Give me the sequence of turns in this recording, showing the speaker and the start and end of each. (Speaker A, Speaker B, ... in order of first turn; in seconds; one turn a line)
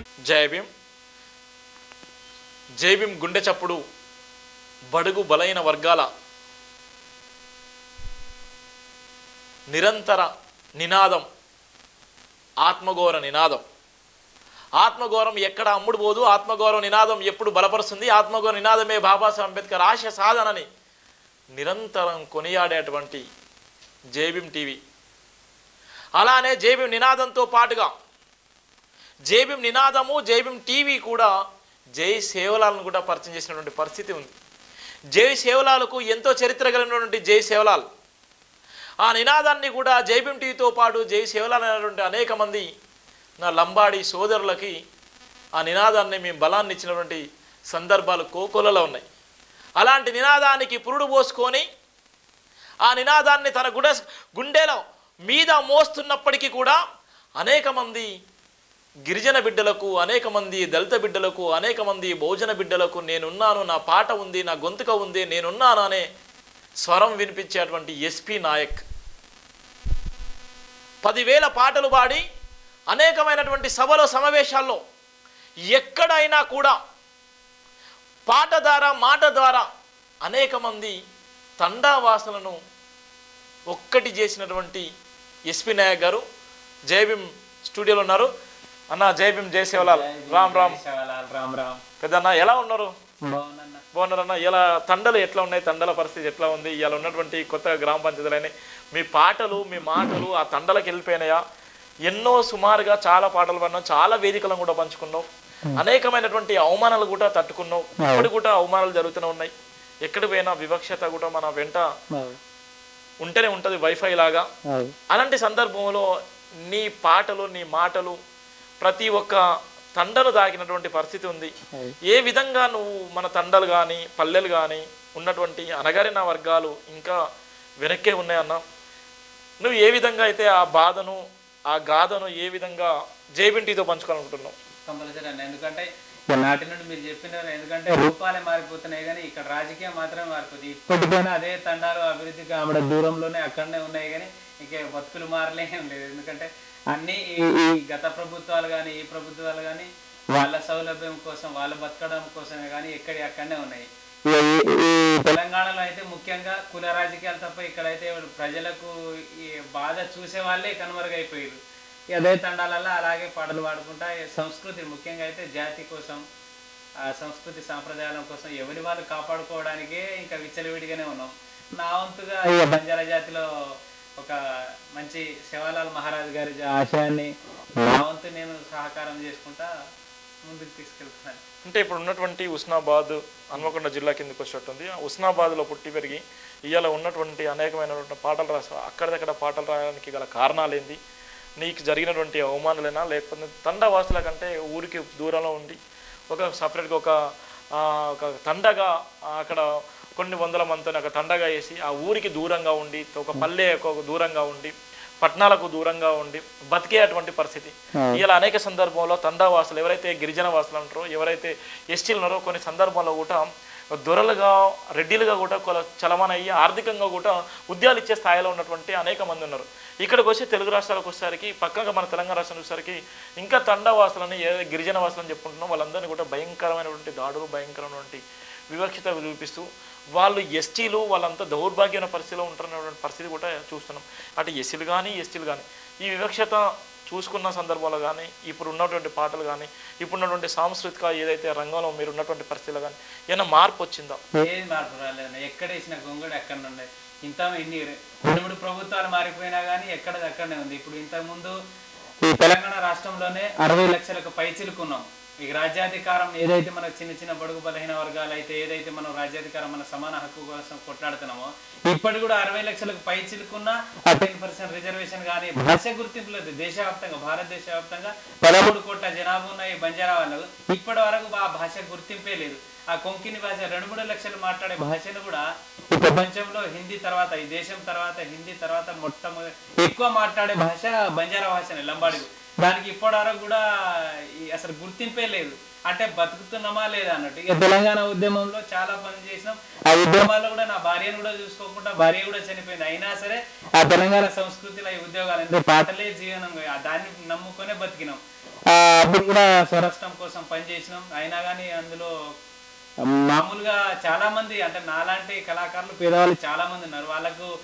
Speaker A: 0.2-0.7
Speaker A: 2.8-3.8
Speaker A: 4.9-6.1
Speaker A: 9.7-11.2
Speaker A: 12.6-13.6
Speaker A: 14.8-20.7
Speaker A: 21.5-23.2
Speaker A: 24.1-24.8
Speaker A: 26.1-27.9
Speaker A: 29.3-31.3
Speaker A: 32.0-34.3
Speaker A: 35.1-37.8
Speaker A: 39.0-42.7
Speaker A: 43.4-44.7
Speaker A: 45.6-49.0
Speaker A: 49.8-51.6
Speaker A: 52.8-56.8
Speaker A: 57.4-58.1
Speaker A: 59.1-66.0
Speaker A: 66.8-68.8
Speaker A: 71.0-72.2
Speaker A: 72.9-74.8
Speaker A: 75.7-76.8
Speaker A: 78.3-79.7
Speaker A: 80.2-81.0
Speaker A: 81.6-82.6
Speaker A: 83.7-84.8
Speaker A: 85.5-86.2
Speaker A: 86.9-88.3
Speaker A: 88.9-90.8
Speaker B: 89.8-91.8
Speaker A: 92.0-92.9
Speaker B: 93.3-93.8
Speaker A: 93.9-101.4
Speaker A: 102.0-109.5
Speaker B: 108.0-108.3
Speaker A: 110.0-111.8
Speaker A: 113.2-114.5
Speaker B: 114.7-114.9
Speaker A: 115.1-116.1
Speaker A: 116.7-118.2
Speaker A: 118.8-119.4
Speaker A: 120.0-121.5
Speaker A: 122.1-127.2
Speaker A: 127.8-128.6
Speaker A: 129.6-134.5
Speaker B: 134.9-161.6
Speaker B: 162.1-166.2
Speaker B: 167.1-173.4
Speaker B: 174.9-179.7
Speaker B: 180.5-181.4
Speaker A: 181.6-191.0
Speaker A: 191.6-195.8
Speaker A: 196.3-197.2
Speaker A: 197.7-213.4
Speaker B: 207.9-208.2
Speaker A: 213.9-244.2
Speaker B: 244.4-251.6
Speaker B: 252.2-302.1
Speaker B: 303.1-307.5